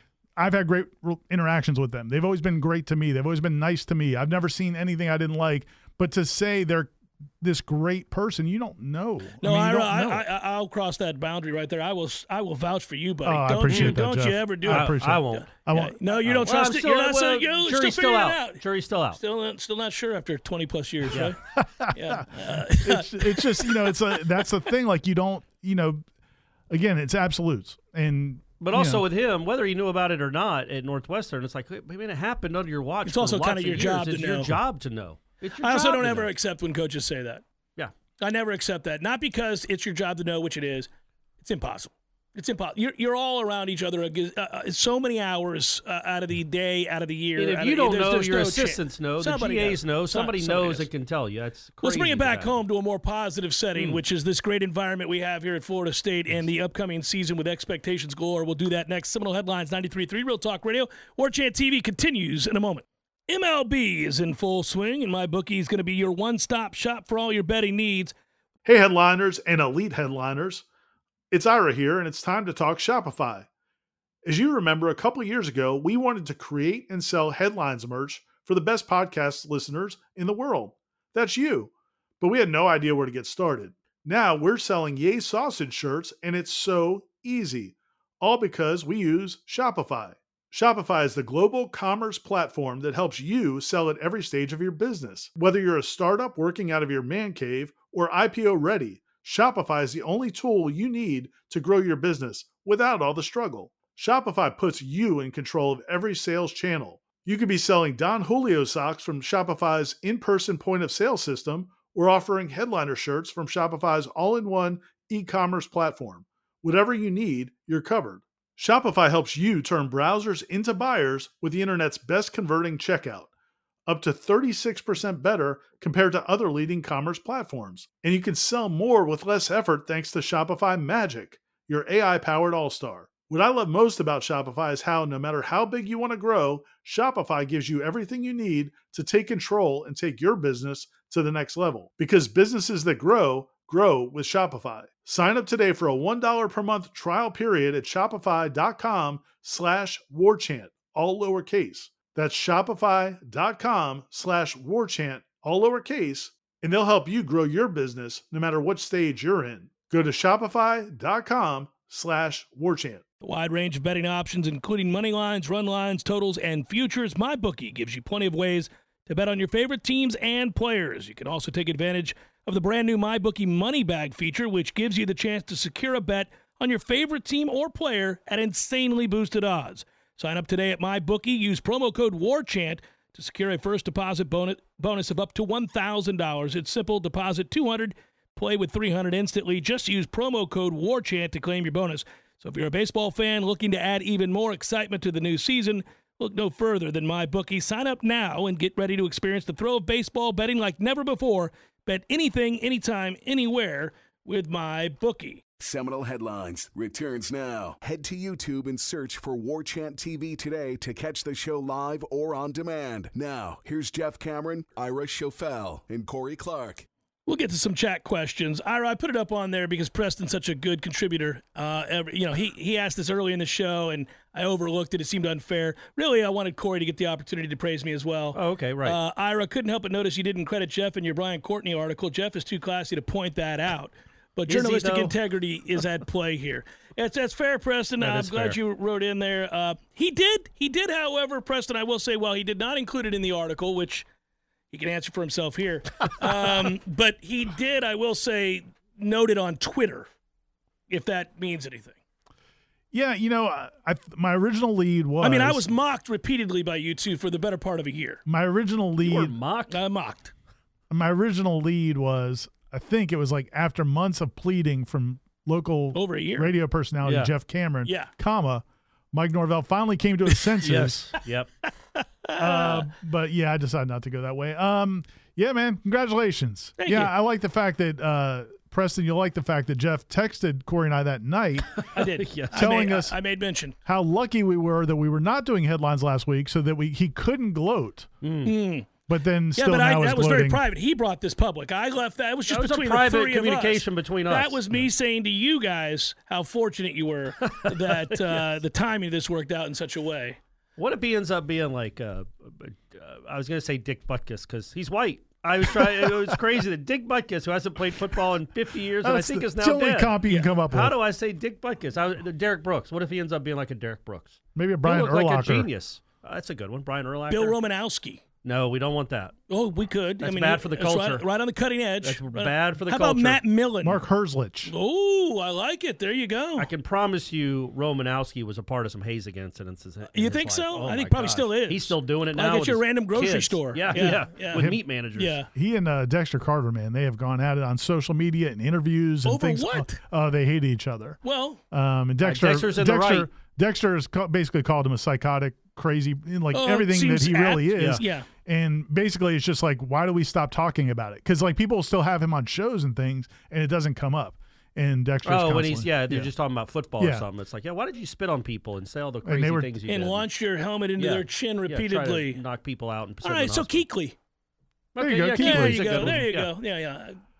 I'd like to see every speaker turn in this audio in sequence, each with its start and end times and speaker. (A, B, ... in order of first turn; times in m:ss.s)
0:00.4-0:10.2 A
0:09.4-0:18.6 B
0:13.2-0:16.0 A
0:13.7-0:14.0 C
0:14.6-0:15.5 C
0:16.1-0:19.2 C
0:19.2-0:21.4 B
0:21.5-0:26.0 A
0:21.9-0:23.9 B
0:26.7-0:29.0 A
0:28.6-0:36.3 C
0:33.0-0:34.6 B
0:35.6-0:37.4 B
0:38.2-0:40.9 B
0:41.4-0:50.9 B
0:47.4-0:52.6 C
0:51.8-1:08.1 B
0:53.8-0:54.0 C
1:08.6-1:10.6 A
1:11.3-1:13.5 A
1:14.2-2:03.3 A
2:03.9-2:43.0 A
2:43.2-3:25.4 B
3:25.6-3:36.8 D
3:37.2-4:04.0 B
3:48.3-3:49.0 C
3:54.5-3:55.1 C
3:58.0-3:58.6 C
4:04.7-4:10.1 B
4:10.9-4:12.0 B
4:12.9-4:15.7 A
4:15.2-4:18.2 B
4:18.2-4:19.3 A
4:19.0-4:19.8 C
4:19.7-4:20.3 B
4:20.9-4:31.2 A
4:25.9-4:26.5 B
4:27.0-4:27.3 C
4:27.8-4:28.1 B
4:30.6-4:31.5 C
4:31.9-4:32.8 B
4:32.3-4:41.8 A
4:36.8-4:37.1 B
4:41.8-4:42.6 C
4:41.9-4:43.8 B
4:42.5-4:43.2 A
4:43.8-4:48.1 A
4:48.2-4:48.6 C
4:48.4-4:48.9 B
4:49.1-4:50.6 A
4:49.6-5:00.4 B
4:52.5-4:54.6 C
4:57.4-4:58.5 C
5:00.8-5:17.6 C
5:09.0-5:11.0 A
5:14.5-5:15.7 A
5:17.3-5:18.2 B
5:18.4-5:19.3 C
5:19.5-5:24.0 B
5:20.2-5:21.2 C
5:22.0-5:23.4 C
5:23.8-5:24.7 A
5:24.6-5:26.7 B
5:26.6-5:35.4 C
5:30.1-5:35.5 B
5:34.0-5:34.8 A
5:35.5-5:41.2 A
5:39.2-5:40.0 B
5:41.2-5:41.6 B
5:41.7-5:56.3 A
5:42.2-5:43.3 C
5:46.5-5:48.3 B
5:47.8-5:48.0 C
5:55.2-6:00.2 C
5:57.0-5:57.2 A
5:59.2-5:59.8 A
5:59.9-6:02.4 B
6:01.0-6:03.8 C
6:03.2-6:04.1 B
6:04.9-6:06.5 C
6:05.0-6:06.2 A
6:05.4-6:07.2 B